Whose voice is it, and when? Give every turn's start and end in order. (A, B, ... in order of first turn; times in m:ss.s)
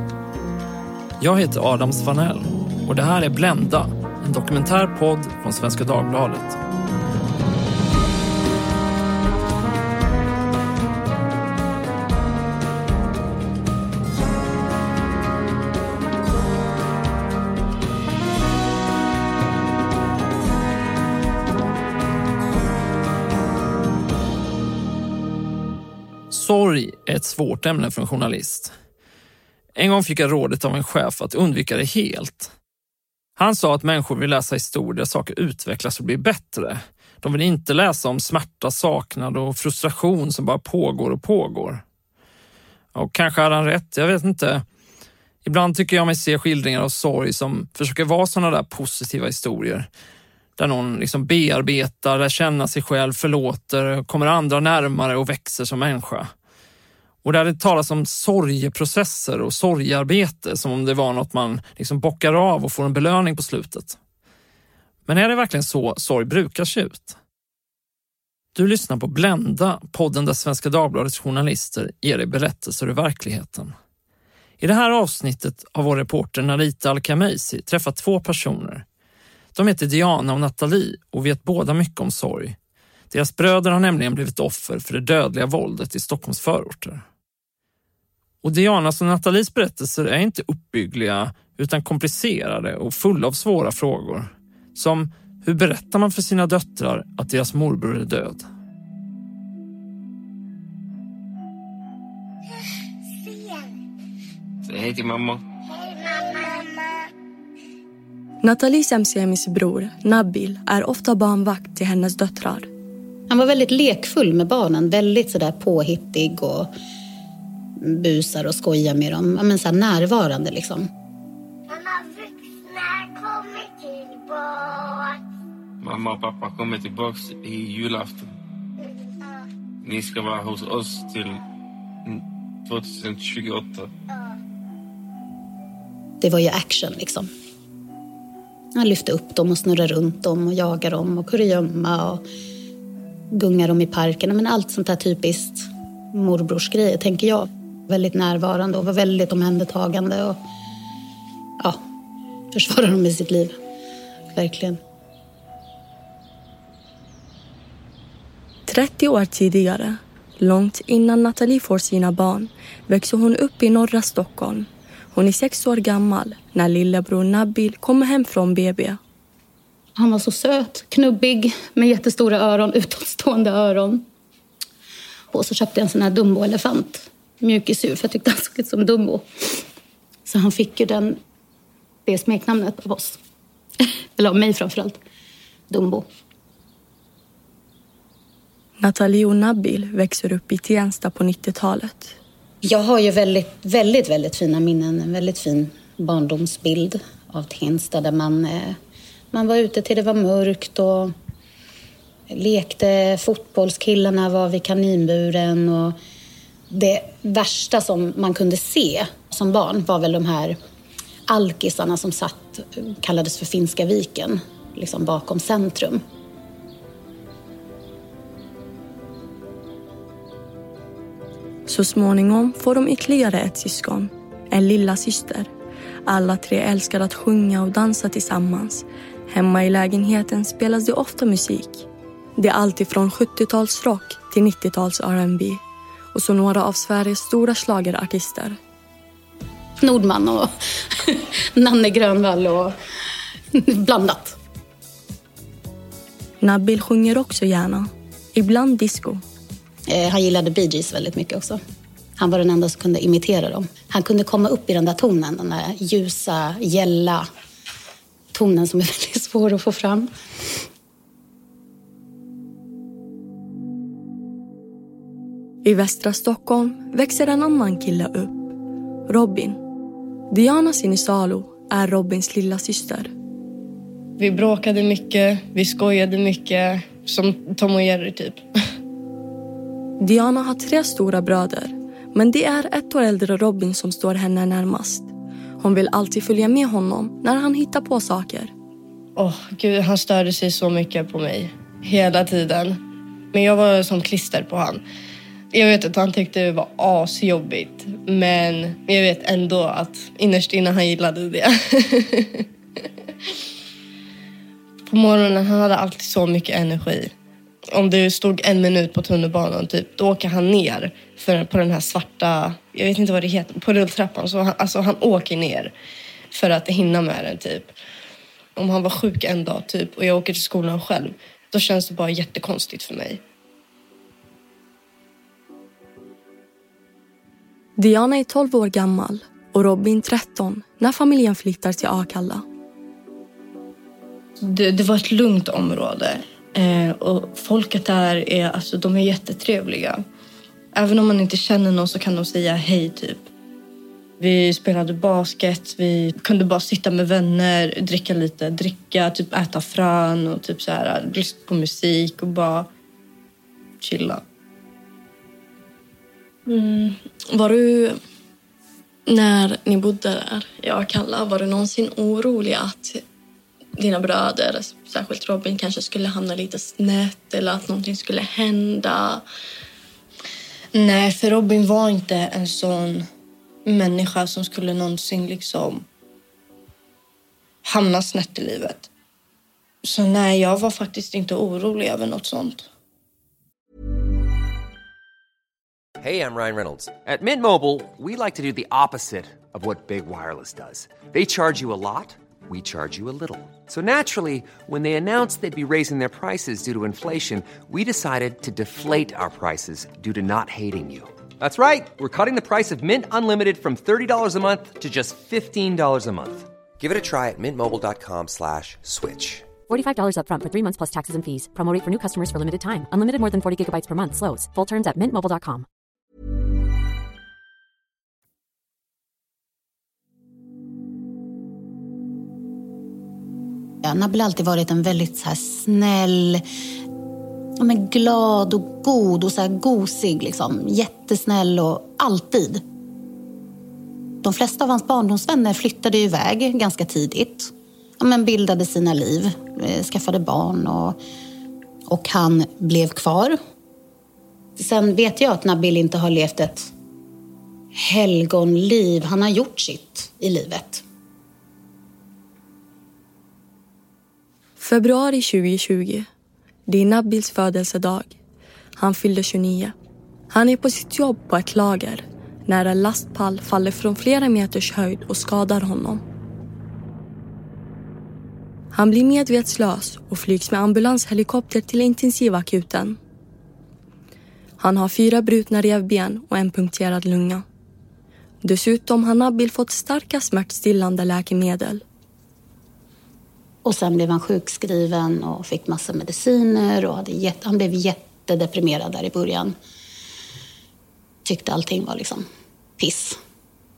0:01.2-0:06.6 A
0:26.3-0:28.7 A
0:29.8-0:32.5 A
0:33.4-0:41.8 A
0:43.0-0:44.6 A
0:45.4-0:49.9 A
0:50.6-0:56.3 A
0:57.2-1:04.0 A
1:05.1-1:07.2 A
1:08.6-1:13.7 A
1:14.6-1:18.8 A
1:19.5-1:22.6 A
1:23.1-1:27.0 A
1:28.4-1:38.5 A
1:44.6-1:45.4 B
1:45.7-1:46.7 C
1:48.4-1:52.7 D
1:53.3-1:56.7 E
1:57.8-2:00.9 E
2:01.7-2:05.2 C
2:05.8-2:08.3 B
2:09.8-2:11.4 B
2:12.0-2:13.9 B
2:16.2-2:17.3 E
2:18.8-2:22.2 E
2:23.3-2:30.4 E
2:32.5-2:33.6 E
2:34.3-2:34.8 E
2:38.7-2:49.0 D
2:50.0-2:54.0 E
2:55.3-2:59.6 E
3:00.3-3:01.2 E
3:02.0-3:03.2 E
3:04.2-3:05.0 E
3:05.7-3:06.1 E
3:08.8-3:12.2 D
3:12.6-3:18.8 E
3:19.3-3:21.1 E
3:22.3-3:26.0 E
3:26.7-3:30.6 E
3:31.3-3:36.0 E
3:41.7-3:45.5 D
3:46.1-3:55.6 D
3:56.1-3:58.6 D
3:59.8-4:02.7 E
4:03.5-4:04.4 E
4:06.4-4:09.2 D
4:09.9-4:11.6 E
4:12.2-4:17.3 E
4:18.3-4:20.6 E
4:25.6-4:28.5 D
4:29.1-4:29.6 D
4:30.3-4:33.1 D
4:34.2-4:38.4 F
4:40.0-4:48.5 D
4:49.2-4:52.8 F
4:53.3-4:54.8 F
4:55.5-5:02.5 F
5:04.9-5:07.1 F
5:07.7-5:15.7 F
5:16.3-5:17.7 F
5:18.6-5:23.2 F
5:27.8-5:32.4 D
5:34.4-5:40.0 F
5:40.7-5:43.3 F
5:44.2-5:52.7 F
5:53.8-5:54.2 F
5:56.5-5:58.0 D
5:59.1-6:03.0 D
6:03.8-6:09.2 D
6:10.7-6:13.1 F
6:13.7-6:15.8 F
6:17.6-6:18.9 F
6:19.8-6:22.7 F
6:26.0-6:49.5 G
6:49.7-6:55.7 H
7:03.8-7:06.4 E
7:07.6-7:12.6 E
7:14.2-7:21.0 E
7:21.9-7:23.4 E
7:24.6-7:26.7 E
7:27.8-7:30.8 E
7:34.6-7:36.1 D
7:36.7-7:38.2 D
7:38.8-7:39.7 D
7:40.3-7:46.0 D
7:48.7-7:53.0 D
7:54.6-7:57.4 D
7:58.4-8:01.8 D
8:03.6-8:09.6 E
8:11.2-8:12.3 E
8:12.8-8:13.2 E